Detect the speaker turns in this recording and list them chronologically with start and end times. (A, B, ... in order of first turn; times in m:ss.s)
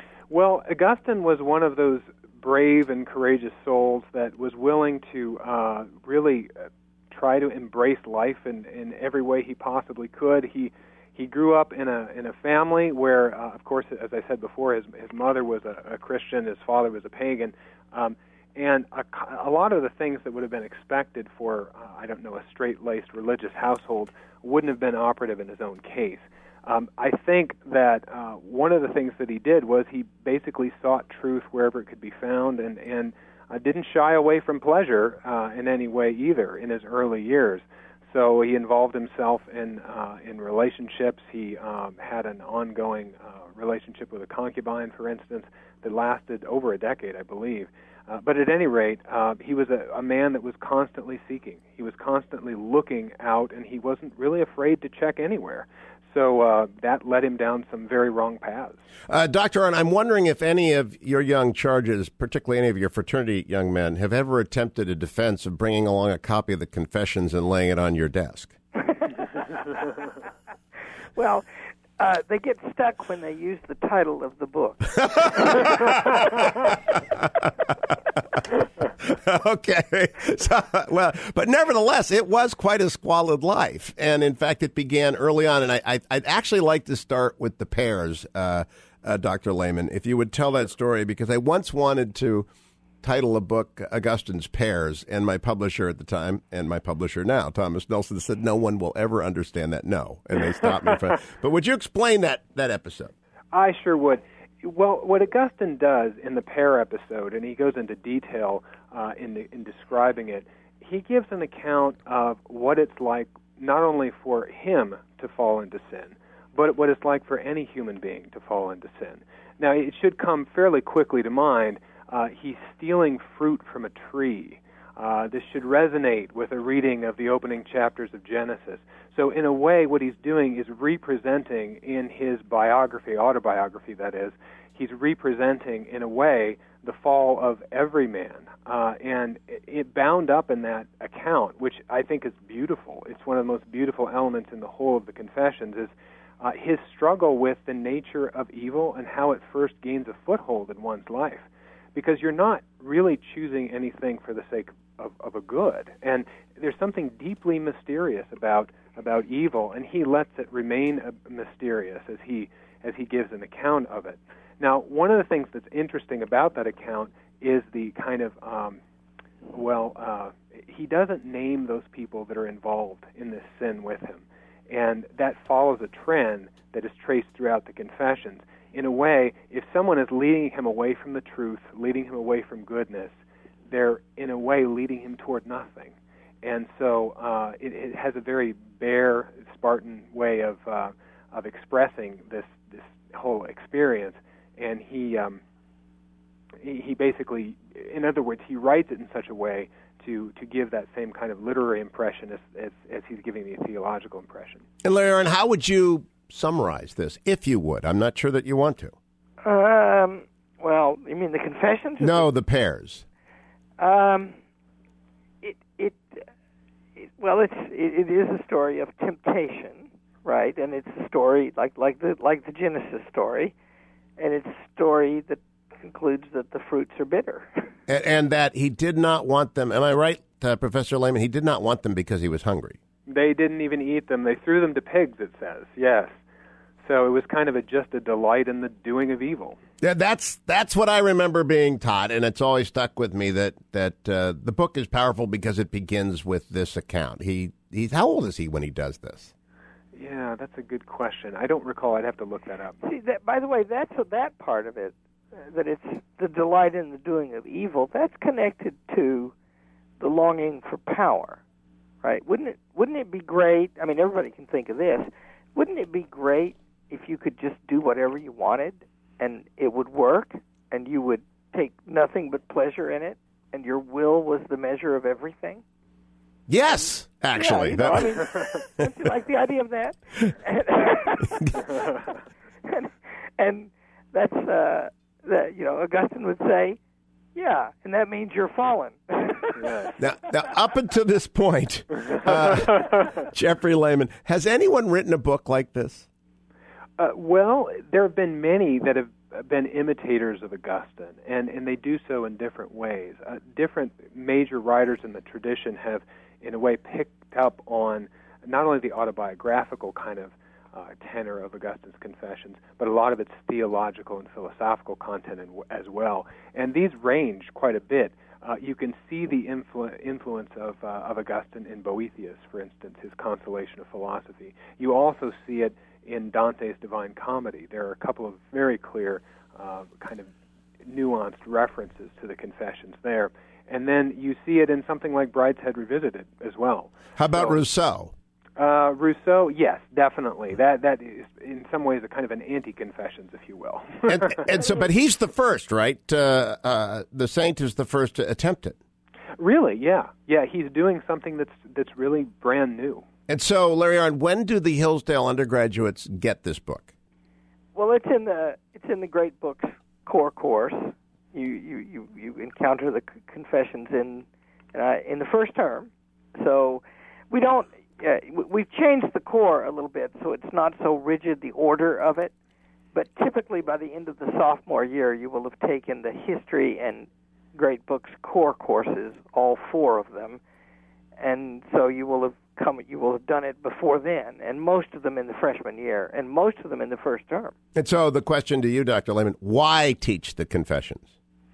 0:00.3-0:58.8 A
0:59.1-1:08.6 B
1:11.2-1:11.4 C
1:12.0-1:16.2 C
1:15.1-1:17.5 B
1:19.0-1:32.5 B
1:33.0-1:43.1 B
1:43.5-2:48.8 A
2:49.5-3:03.2 A
3:03.7-3:15.4 A
3:16.6-3:24.6 A
3:24.8-3:29.0 B
3:29.4-3:32.3 C
3:32.0-3:33.0 B
3:33.8-3:34.4 C
3:35.4-3:36.2 C
3:37.0-3:43.5 C
3:44.2-3:47.6 C
3:47.9-3:52.8 B
3:53.1-3:56.1 A
3:56.8-3:59.6 A
3:59.8-4:09.3 B
4:10.0-4:12.8 A
4:12.8-4:19.3 C
4:20.0-4:21.4 C
4:22.0-4:35.6 C
4:36.5-4:38.8 B
4:37.4-4:41.8 C
4:41.3-4:41.6 B
4:42.6-4:46.8 C
4:47.4-4:49.9 C
4:49.6-4:50.0 A
4:50.0-4:56.1 B
4:57.0-5:30.3 A
5:30.8-5:37.6 A
5:37.2-5:38.1 B
5:38.6-5:44.6 A
5:44.1-5:48.8 B
5:49.4-5:53.0 A
5:53.3-5:56.9 B
5:57.8-6:12.3 C
6:12.9-6:20.4 C
6:21.2-6:27.5 C
6:27.8-6:31.1 B